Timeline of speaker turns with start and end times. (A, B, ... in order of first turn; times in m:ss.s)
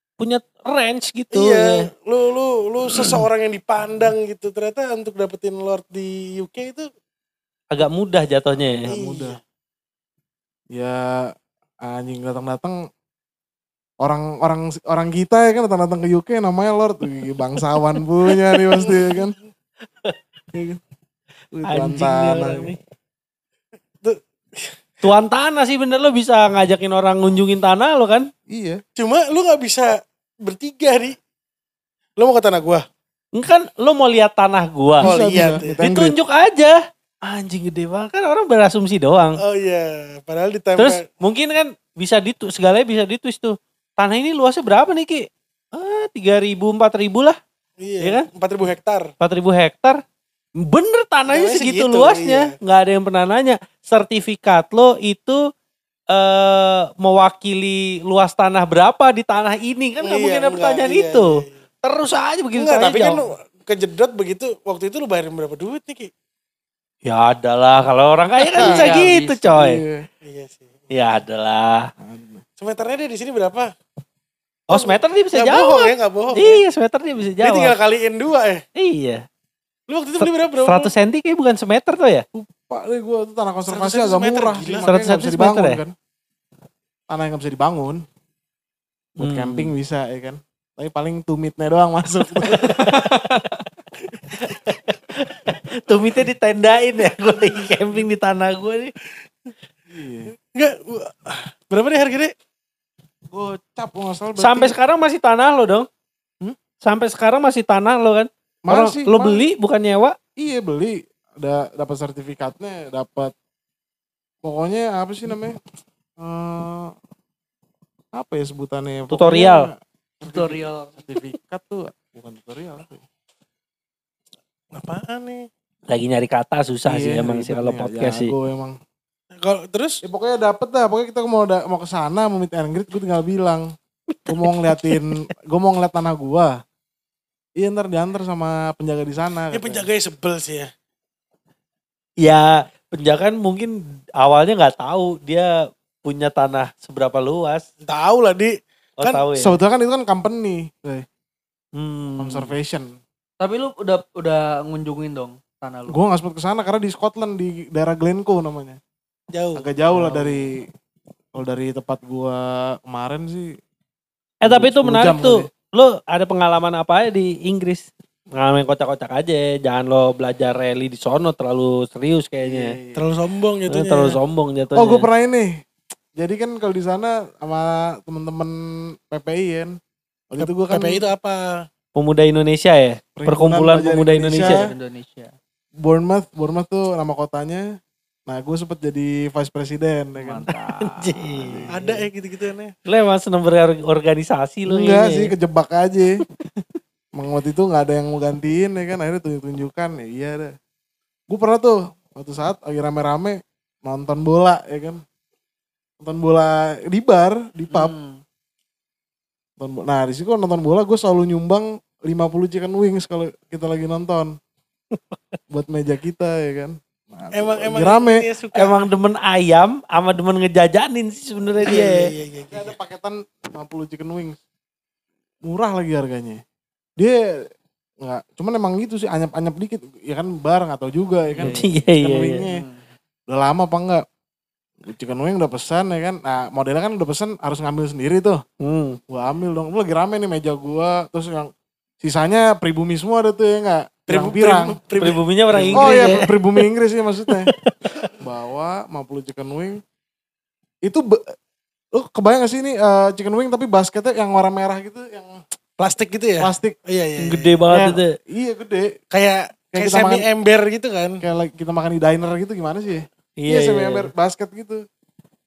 0:00.2-0:01.9 A
0:01.3-0:06.9 B
0:03.0-0:03.2 A
0:07.7-0:08.9 A
0:08.8-0:09.4 C
0:08.9-0:09.4 B
0:10.7-0:11.2 C
0:11.8-0:12.8 C
0:14.0-0:19.4 C
0:20.5-0:20.8 C
0:21.6-0:22.7 C
0:21.6-0:22.8 A
0:24.0-0:24.8 B
0:25.0-0:28.3 A
0:28.5-0:28.8 C
0:29.0-0:29.9 B
0:30.4-0:31.2 B
0:32.2-0:32.8 B
0:33.4-0:39.4 A
0:35.0-0:36.2 C
0:35.0-0:35.8 B
0:39.4-0:41.0 B
0:40.8-0:47.4 A
0:47.8-0:49.1 B
0:48.0-0:48.3 A
0:49.2-0:50.0 A
0:50.6-0:55.4 A
0:51.3-0:52.5 B
0:56.1-1:03.2 A
1:00.0-1:01.5 B
1:02.6-1:06.1 B
1:07.0-1:09.8 A
1:08.6-1:09.0 C
1:08.6-1:09.5 D
1:09.5-1:10.1 C
1:10.2-1:10.8 B
1:10.9-1:11.9 A
1:12.0-1:12.4 C
1:12.6-1:13.7 B
1:14.7-1:17.8 A
1:14.7-1:16.6 B
1:17.4-1:18.6 B
1:18.8-1:19.2 A
1:19.9-1:20.9 B
1:20.2-1:22.2 A
1:22.3-1:25.9 C
1:23.7-1:25.0 B
1:24.8-1:25.8 A
1:27.1-1:28.0 C
1:29.2-1:32.9 C
1:29.2-1:29.7 A
1:32.5-1:33.4 A
1:32.7-1:33.4 D
1:34.4-1:38.9 A
1:39.9-1:40.4 C
1:40.5-1:42.3 B
1:43.3-1:44.8 C
1:44.4-1:45.9 A
1:46.8-1:50.2 A
1:48.7-1:49.4 C
1:50.4-1:53.3 C
1:54.4-1:55.6 C
1:56.2-1:56.9 C
1:58.1-2:03.0 C
1:59.1-1:59.7 A
2:00.2-2:00.9 D
2:04.7-2:05.5 B
2:05.9-2:08.3 A
2:06.9-2:08.8 C
2:09.4-2:10.0 B
2:10.0-2:13.7 C
2:14.2-2:15.0 A
2:14.3-2:16.6 C
2:17.6-2:19.9 C
2:19.5-2:20.7 B
2:22.2-2:25.5 A
2:26.0-2:27.7 A
2:27.9-2:29.2 B
2:29.0-2:29.6 A
2:29.4-2:31.1 C
2:31.8-2:32.5 A
2:32.2-2:32.9 C
2:33.4-2:36.0 D
2:35.9-2:38.8 C
2:39.3-2:39.7 B
2:39.6-2:40.6 C
2:39.9-2:40.4 D
2:41.4-2:43.6 C
2:44.4-2:52.8 A
2:44.4-2:45.5 C
2:52.4-2:53.1 C
2:53.0-2:54.2 B
2:53.7-2:55.1 A
2:54.8-2:55.6 C
2:56.2-2:59.8 C
3:00.3-3:01.0 C
3:00.4-3:01.6 B
3:02.0-3:04.6 A
3:03.2-3:04.6 C
3:04.3-3:05.4 D
3:05.8-3:07.7 C
3:08.3-3:10.5 C
3:10.2-3:12.0 D
3:10.8-3:11.5 A
3:11.4-3:11.8 C
3:11.7-3:12.7 B
3:12.9-3:15.3 A
3:14.7-3:16.2 C
3:17.2-3:20.5 C
3:21.3-3:25.0 C
3:26.0-3:27.9 C
3:27.7-3:28.2 D
3:29.6-3:34.3 C
3:35.5-3:38.2 C
3:37.3-3:38.8 B
3:38.5-3:42.1 A
3:41.6-3:42.8 B
3:42.5-3:44.4 C
3:45.5-3:46.4 C
3:47.0-3:47.4 C
3:48.0-3:52.6 C
3:51.4-3:52.9 D
3:51.4-3:52.4 A
3:53.3-3:54.0 C
3:54.8-3:58.4 C
3:58.6-3:59.0 A
3:59.1-4:04.8 C
4:04.1-4:06.2 B
4:05.0-4:06.3 A
4:05.7-4:07.5 C
4:08.2-4:09.8 C
4:10.8-4:11.4 C
4:11.9-4:15.4 C
4:15.8-4:17.6 B
4:16.4-4:16.8 C
4:17.2-4:18.2 A
4:17.7-4:19.0 C
4:19.1-4:21.2 B
4:19.7-4:20.3 C
4:21.2-4:24.8 C
4:23.4-4:24.1 A